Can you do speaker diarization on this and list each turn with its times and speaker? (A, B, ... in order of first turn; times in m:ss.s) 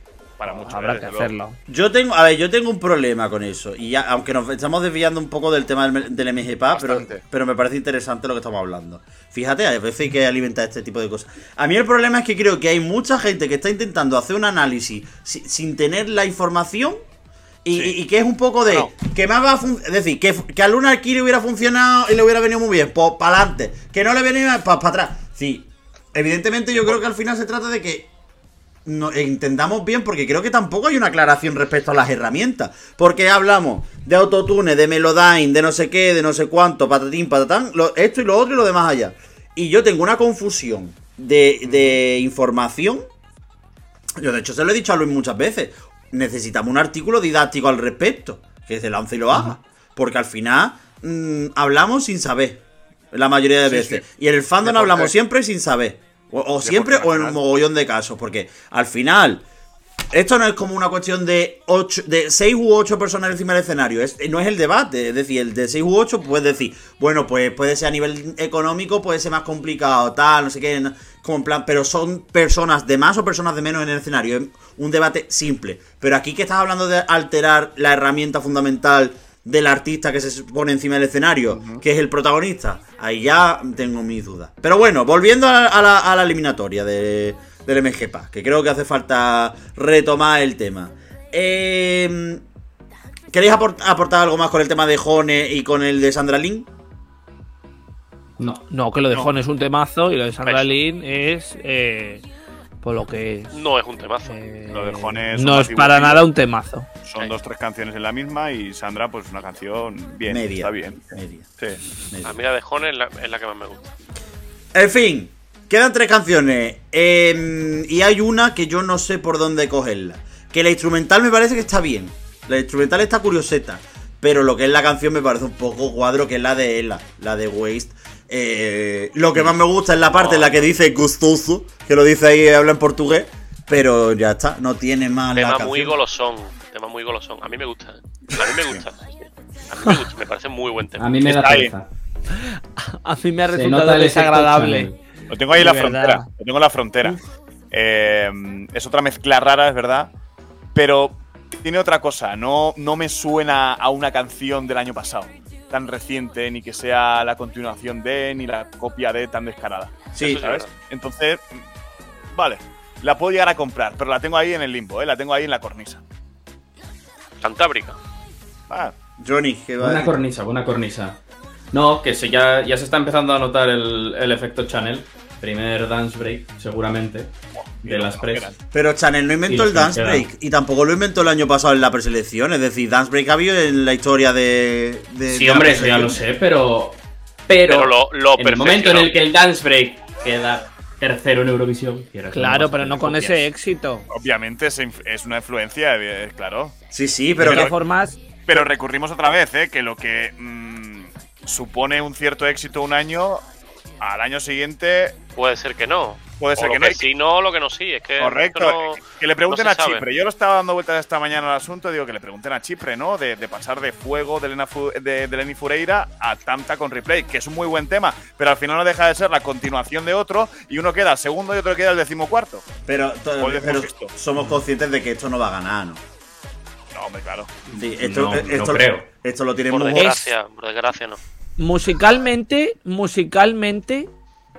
0:00.4-0:01.3 A
0:00.5-0:01.6 B
0:01.7-0:17.0 C
0:06.7-0:07.2 A
0:17.6-0:28.1 C
0:28.8-0:43.0 C
0:41.6-0:42.0 A
0:44.2-0:59.4 C
0:53.7-0:54.0 A
0:54.6-0:55.1 A
0:56.6-0:57.4 A
1:00.1-1:32.4 C
1:21.5-1:21.8 A
1:33.3-1:36.7 C
1:38.7-1:42.2 B
1:40.4-1:40.7 D
1:42.8-1:43.5 B
1:43.5-1:44.4 D
1:44.2-1:46.9 B
1:44.7-1:46.2 A
1:47.0-1:51.8 A
1:50.3-1:51.6 C
1:52.1-1:52.4 C
1:52.2-1:53.9 D
1:54.7-2:16.0 C
2:10.1-2:10.6 D
2:15.3-2:21.1 D
2:21.0-2:21.9 E
2:21.2-2:21.7 A
2:22.3-2:24.9 B
2:23.5-2:25.0 E
2:25.3-2:27.2 A
2:25.5-2:26.3 B
2:27.7-2:30.1 A
2:30.7-2:41.6 A
2:40.1-2:40.4 C
2:40.2-2:40.7 D
2:42.3-2:46.0 A
2:47.4-2:48.0 D
2:48.7-2:48.9 A
2:49.2-2:50.2 C
2:49.8-2:51.2 E
2:51.7-2:58.5 E
2:57.5-2:58.6 A
2:58.7-3:06.2 C
2:59.5-3:00.3 E
3:05.3-3:13.5 E
3:07.6-3:09.1 D
3:12.3-3:14.1 B
3:14.1-3:16.8 A
3:16.9-3:17.7 C
3:17.4-3:18.2 B
3:17.4-3:17.7 A
3:18.4-3:23.4 A
3:24.0-3:25.2 A
3:25.4-3:30.0 D
3:26.4-3:27.0 A
3:28.2-3:42.6 A
3:42.9-3:46.0 C
3:43.4-3:44.1 A
3:46.9-3:47.6 A
3:47.7-3:50.1 C
3:48.0-3:49.1 E
3:49.7-3:51.2 D
3:50.0-3:50.3 B
3:51.6-3:54.1 B